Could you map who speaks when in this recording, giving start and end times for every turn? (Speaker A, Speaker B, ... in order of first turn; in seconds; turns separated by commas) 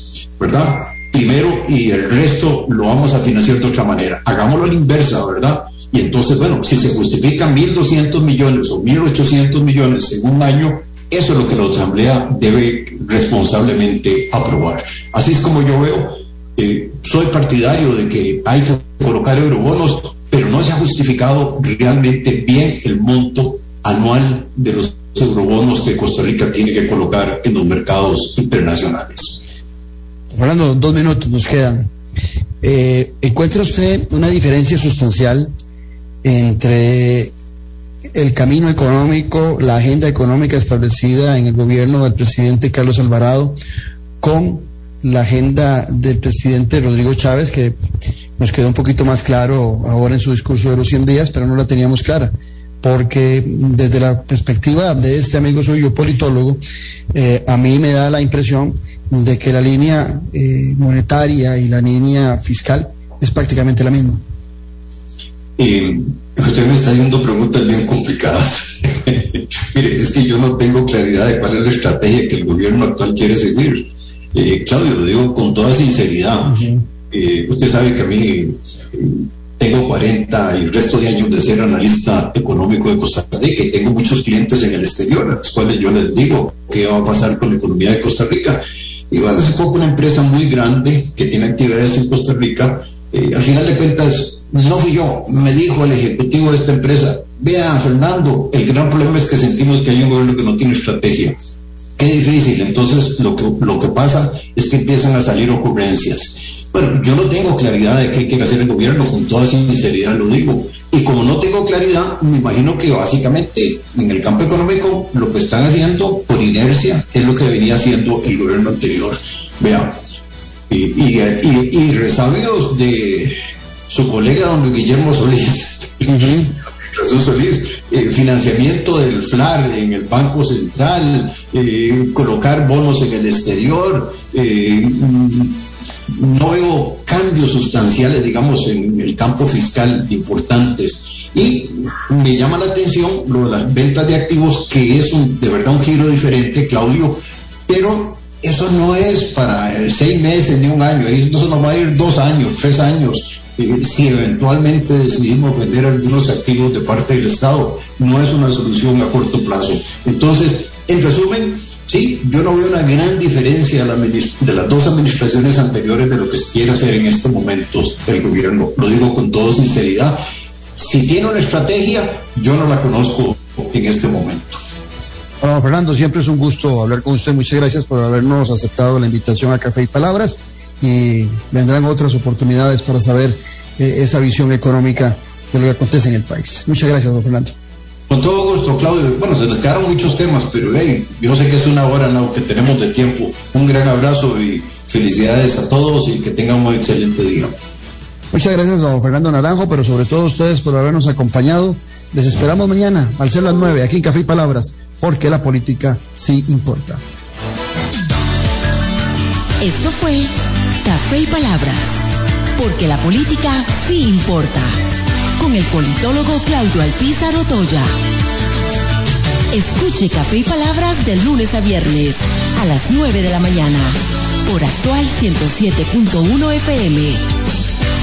Speaker A: 0.4-29.5, Speaker B: 30.3-31.9, Speaker B: 32.6-35.5, Speaker B: 36.2-37.3, Speaker B: 38.1-43.6, Speaker B: 44.2-47.8, Speaker B: 48.4-56.6, Speaker B: 57.1-64.2, Speaker A: 65.6-101.4, Speaker B: 76.5-76.8, Speaker A: 102.0-120.0, Speaker A: 120.7-123.4, Speaker A: 123.9-170.2, Speaker B: 126.1-126.5, Speaker A: 170.8-174.6, Speaker B: 175.4-187.6, Speaker A: 188.1-197.6, Speaker B: 198.3-207.0, Speaker C: 209.6-212.0, Speaker C: 212.6-214.8, Speaker C: 215.4-217.9, Speaker C: 219.5-227.2